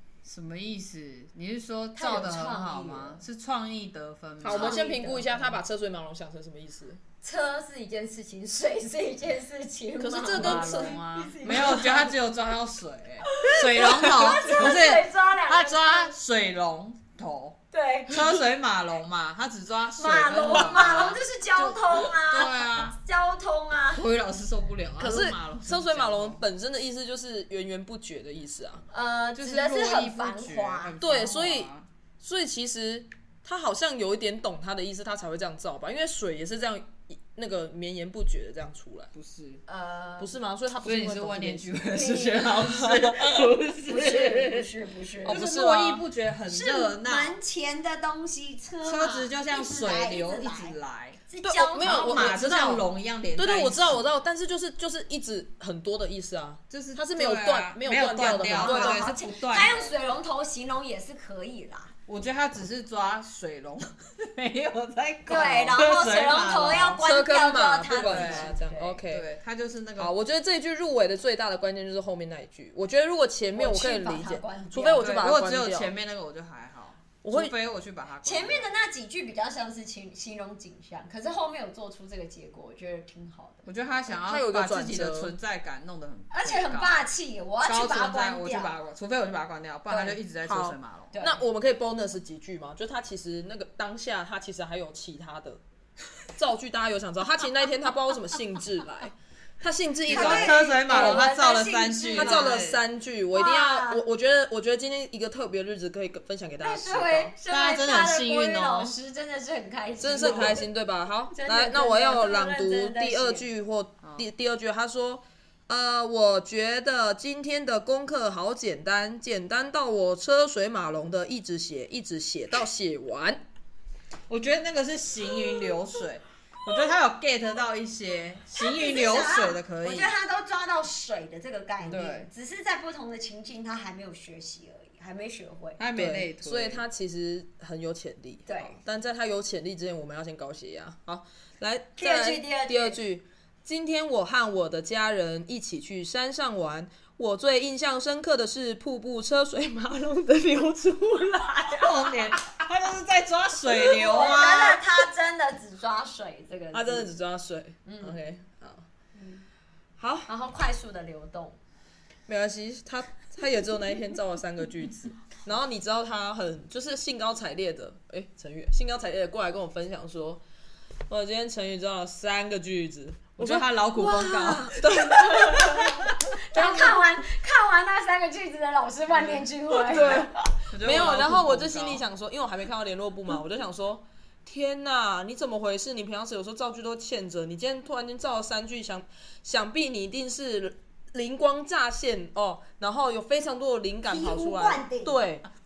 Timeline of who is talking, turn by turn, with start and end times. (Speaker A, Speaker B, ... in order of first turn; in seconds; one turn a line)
Speaker A: 0.2-4.8
Speaker B: 2.0-3.2
Speaker B: 4.4-5.6
Speaker C: 4.4-7.0
Speaker B: 7.2-12.0
Speaker C: 10.0-11.8
Speaker A: 10.3-23.0
Speaker B: 13.3-16.1
Speaker B: 17.7-18.3
Speaker B: 20.0-24.0
Speaker A: 23.9-26.4
Speaker C: 25.0-28.8
Speaker B: 28.9-30.9
Speaker A: 29.4-31.9
Speaker C: 31.0-39.1
Speaker A: 39.1-39.6
Speaker B: 39.7-40.3
Speaker C: 40.2-41.8
Speaker A: 40.8-44.7
Speaker B: 41.9-42.6
Speaker C: 42.9-43.1
Speaker B: 43.8-45.5
Speaker C: 45.2-46.0
Speaker A: 45.2-47.4
Speaker B: 46.5-50.8
Speaker A: 48.8-51.2
Speaker B: 51.3-52.5
Speaker C: 51.4-52.9
Speaker A: 51.8-54.0
Speaker C: 53.4-59.1
Speaker A: 56.7-60.0
Speaker B: 58.4-61.9
Speaker A: 62.1-67.0
Speaker B: 65.3-69.0
Speaker C: 67.0-69.3
Speaker A: 68.0-68.5
Speaker A: 69.1-70.1
Speaker C: 70.0-75.9
Speaker B: 73.5-75.1
Speaker A: 75.0-78.7
Speaker C: 77.2-77.5
Speaker B: 78.2-83.7
Speaker A: 83.7-87.1
Speaker C: 84.1-85.3
Speaker B: 86.3-88.8
Speaker A: 87.6-91.1
Speaker C: 90.4-95.6
Speaker B: 91.1-91.4
Speaker C: 96.3-101.3
Speaker A: 100.1-102.8
Speaker B: 100.1-102.6
Speaker C: 102.2-107.3
Speaker B: 103.3-104.0
Speaker B: 106.6-110.6
Speaker A: 107.5-109.0
Speaker C: 110.0-123.4
Speaker A: 110.1-110.6
Speaker B: 111.3-113.5
Speaker A: 124.3-130.1
Speaker B: 128.6-135.8
Speaker A: 131.8-132.3
Speaker A: 135.8-136.8
Speaker C: 136.0-152.3
Speaker B: 138.5-138.8
Speaker B: 142.0-143.0
Speaker A: 151.8-154.9
Speaker B: 154.0-157.1
Speaker C: 156.7-158.9
Speaker B: 157.8-158.2
Speaker B: 159.2-159.4
Speaker C: 160.0-160.3
Speaker B: 160.3-161.6
Speaker C: 162.3-170.4
Speaker C: 171.1-175.9
Speaker A: 173.4-175.1
Speaker B: 175.6-175.8
Speaker B: 176.5-180.3
Speaker C: 176.5-177.0
Speaker C: 179.8-195.5
Speaker A: 180.0-182.0
Speaker B: 194.1-195.2